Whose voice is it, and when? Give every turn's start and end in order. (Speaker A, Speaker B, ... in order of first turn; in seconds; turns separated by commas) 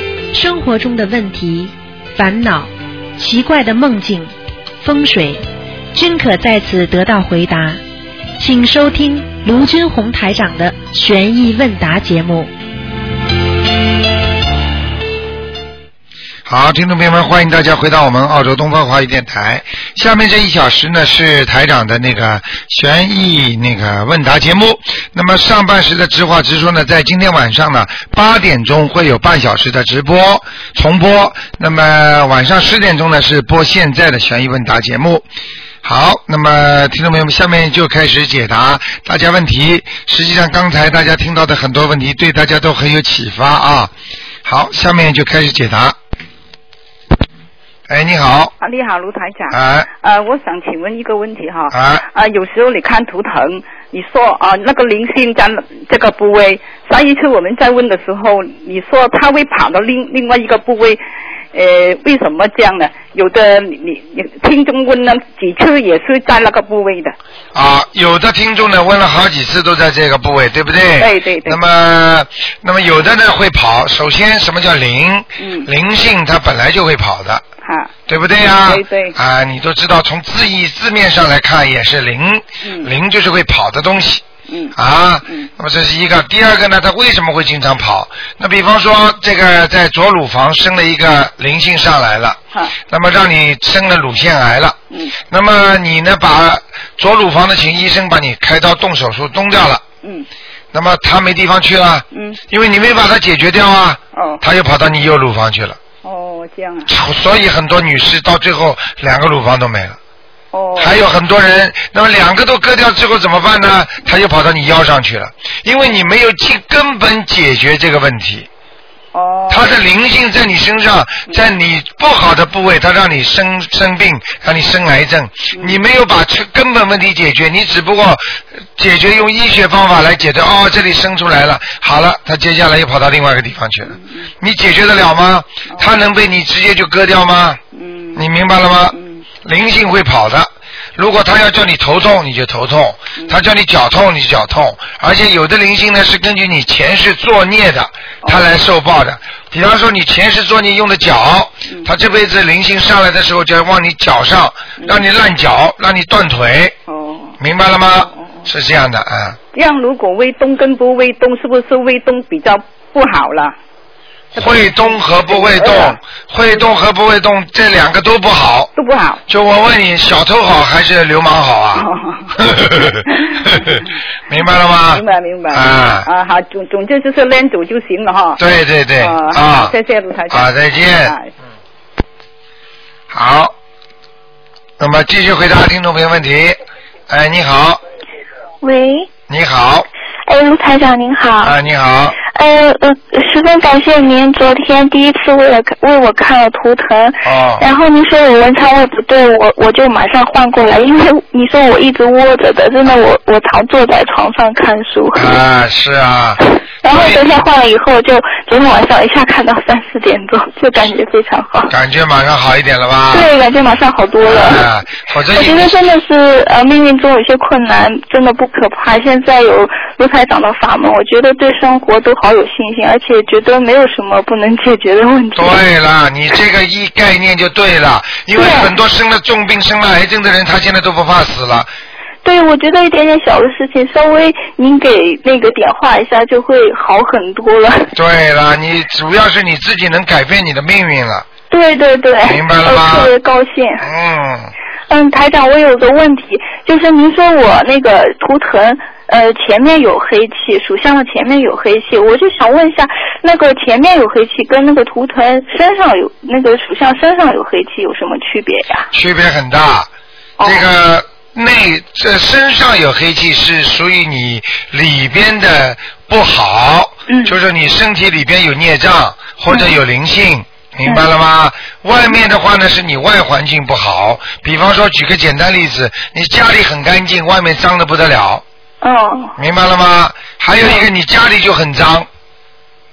Speaker A: 0.3-5.4, Speaker A: 5.9-7.8, Speaker A: 8.4-12.5, Speaker B: 16.5-35.3, Speaker B: 35.8-43.9, Speaker B: 44.5-46.0, Speaker B: 47.9-48.5, Speaker C: 48.6-61.0, Speaker B: 49.5-49.9, Speaker B: 51.7-52.0, Speaker C: 61.5-67.2, Speaker B: 67.5-77.4, Speaker C: 71.0-71.6, Speaker C: 75.4-75.7, Speaker C: 77.6-77.9, Speaker B: 78.1-84.2, Speaker C: 78.5-79.2, Speaker C: 82.6-82.9, Speaker C: 84.5-84.8, Speaker B: 84.8-92.4, Speaker B: 92.9-94.8, Speaker C: 94.9-95.2, Speaker B: 95.3-99.8, Speaker B: 100.7-105.8, Speaker C: 102.1-102.4, Speaker C: 104.1-104.4, Speaker C: 106.0-106.9, Speaker B: 106.9-110.0, Speaker C: 110.5-111.0, Speaker B: 110.8-118.5, Speaker C: 119.1-119.7, Speaker B: 119.5-137.6, Speaker C: 125.5-125.8, Speaker C: 133.9-134.3, Speaker C: 137.7-138.2, Speaker B: 138.2-156.8, Speaker C: 138.9-139.2, Speaker C: 156.9-157.4, Speaker B: 157.4-159.4, Speaker C: 158.0-158.3, Speaker C: 159.5-163.6, Speaker B: 164.3-168.7, Speaker C: 165.3-166.0, Speaker C: 168.8-169.2, Speaker B: 169.3-176.1, Speaker C: 171.8-172.3, Speaker C: 173.1-173.8, Speaker C: 174.9-178.4, Speaker B: 178.4-179.7, Speaker C: 179.0-181.3, Speaker B: 180.3-181.2, Speaker B: 183.1-183.5, Speaker B: 184.8-186.6, Speaker B: 187.1-187.8, Speaker D: 188.6-189.1, Speaker B: 189.3-189.9, Speaker D: 190.3-191.6, Speaker B: 191.4-192.2, Speaker D: 192.3-205.4, Speaker B: 197.2-197.6, Speaker B: 205.2-207.4, Speaker D: 206.8-211.7, Speaker B: 211.7-213.3, Speaker D: 213.1-214.6, Speaker B: 214.3-215.8, Speaker D: 215.3-225.6, Speaker B: 225.3-231.7, Speaker D: 228.3-228.7, Speaker D: 232.2-237.9, Speaker B: 237.9-241.2, Speaker D: 241.5-243.9, Speaker B: 242.3-243.1, Speaker B: 243.8-244.5, Speaker D: 244.9-258.9, Speaker B: 258.9-259.9, Speaker D: 260.4-260.7, Speaker B: 260.4-278.4, Speaker D: 267.1-267.4, Speaker D: 269.5-269.8, Speaker D: 278.8-279.4, Speaker B: 279.4-282.1